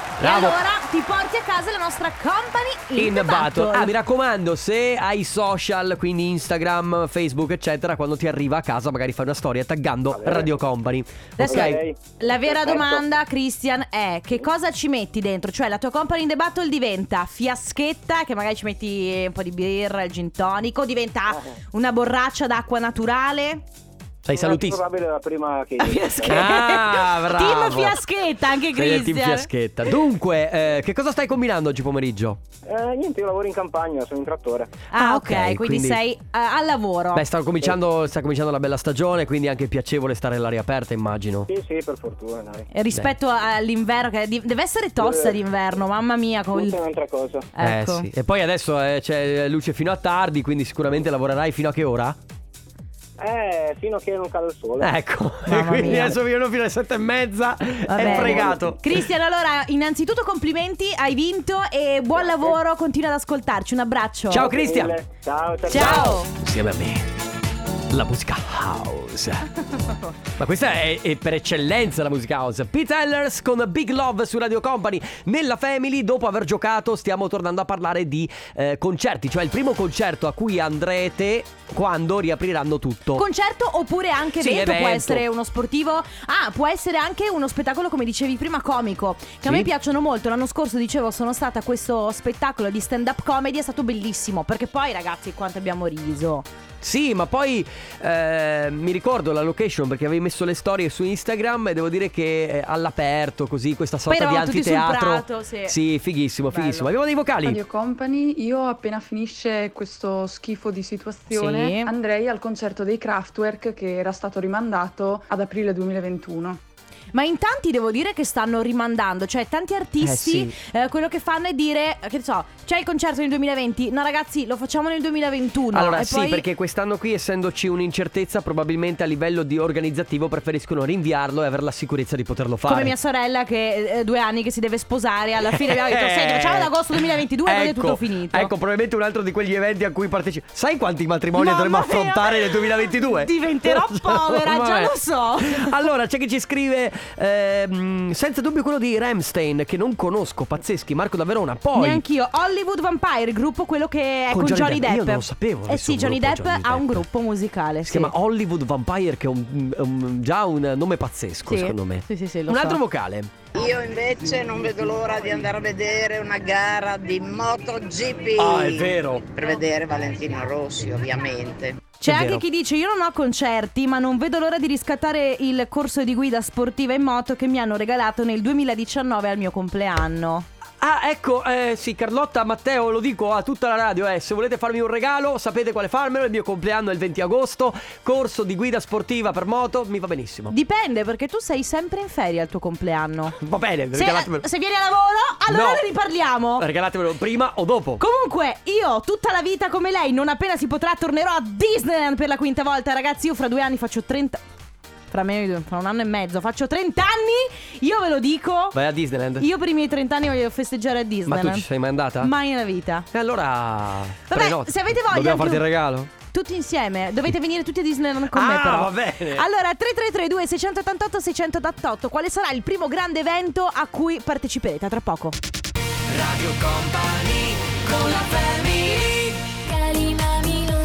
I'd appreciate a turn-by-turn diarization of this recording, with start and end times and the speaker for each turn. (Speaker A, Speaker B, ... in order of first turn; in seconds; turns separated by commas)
Speaker A: 0.2-0.6, Speaker B: 0.2-3.9, Speaker A: 3.0-11.8, Speaker C: 10.1-10.6, Speaker B: 11.4-23.6, Speaker C: 11.4-13.1, Speaker A: 24.2-24.8, Speaker C: 24.3-26.5, Speaker B: 25.8-29.5, Speaker A: 26.3-28.0, Speaker A: 28.7-32.4, Speaker C: 32.7-34.7, Speaker B: 34.9-37.2, Speaker A: 34.9-36.0, Speaker A: 37.1-41.5, Speaker C: 41.5-42.7, Speaker B: 42.7-46.8, Speaker C: 45.0-45.4, Speaker C: 46.5-47.5, Speaker B: 47.5-48.1, Speaker A: 47.6-52.2, Speaker C: 53.2-55.0, Speaker A: 54.8-58.9, Speaker B: 55.5-56.2, Speaker B: 57.9-64.5, Speaker C: 58.0-58.6, Speaker C: 62.1-62.6, Speaker A: 64.3-65.0, Speaker C: 64.4-66.2, Speaker B: 65.7-66.3, Speaker A: 65.7-67.1, Speaker A: 67.9-69.5, Speaker A: 70.4-83.2, Speaker B: 83.2-96.5, Speaker A: 84.4-85.2, Speaker A: 89.4-89.7, Speaker A: 96.8-107.6, Speaker B: 104.1-105.8, Speaker B: 106.5-106.9, Speaker D: 107.4-116.6, Speaker B: 111.3-111.9, Speaker B: 117.1-126.5, Speaker A: 120.0-120.5, Speaker A: 125.7-132.9, Speaker B: 132.7-138.5, Speaker A: 135.5-152.0, Speaker B: 141.3-145.8, Speaker B: 151.7-158.1, Speaker A: 154.3-157.1, Speaker A: 157.8-163.3, Speaker B: 161.5-162.8, Speaker E: 163.5-171.8, Speaker A: 168.4-169.3, Speaker B: 172.0-180.5, Speaker A: 172.0-172.4, Speaker A: 180.8-190.5, Speaker B: 190.5-193.3, Speaker A: 193.4-194.5, Speaker B: 193.9-196.7, Speaker A: 195.5-195.8, Speaker A: 196.6-198.0, Speaker B: 198.0-204.4, Speaker B: 205.1-208.8, Speaker A: 208.7-209.5, Speaker B: 209.4-211.7, Speaker A: 211.3-212.3, Speaker B: 212.2-213.1, Speaker A: 213.1-216.1, Speaker B: 214.3-215.6, Speaker B: 216.3-225.4, Speaker A: 218.3-219.4, Speaker A: 226.1-229.3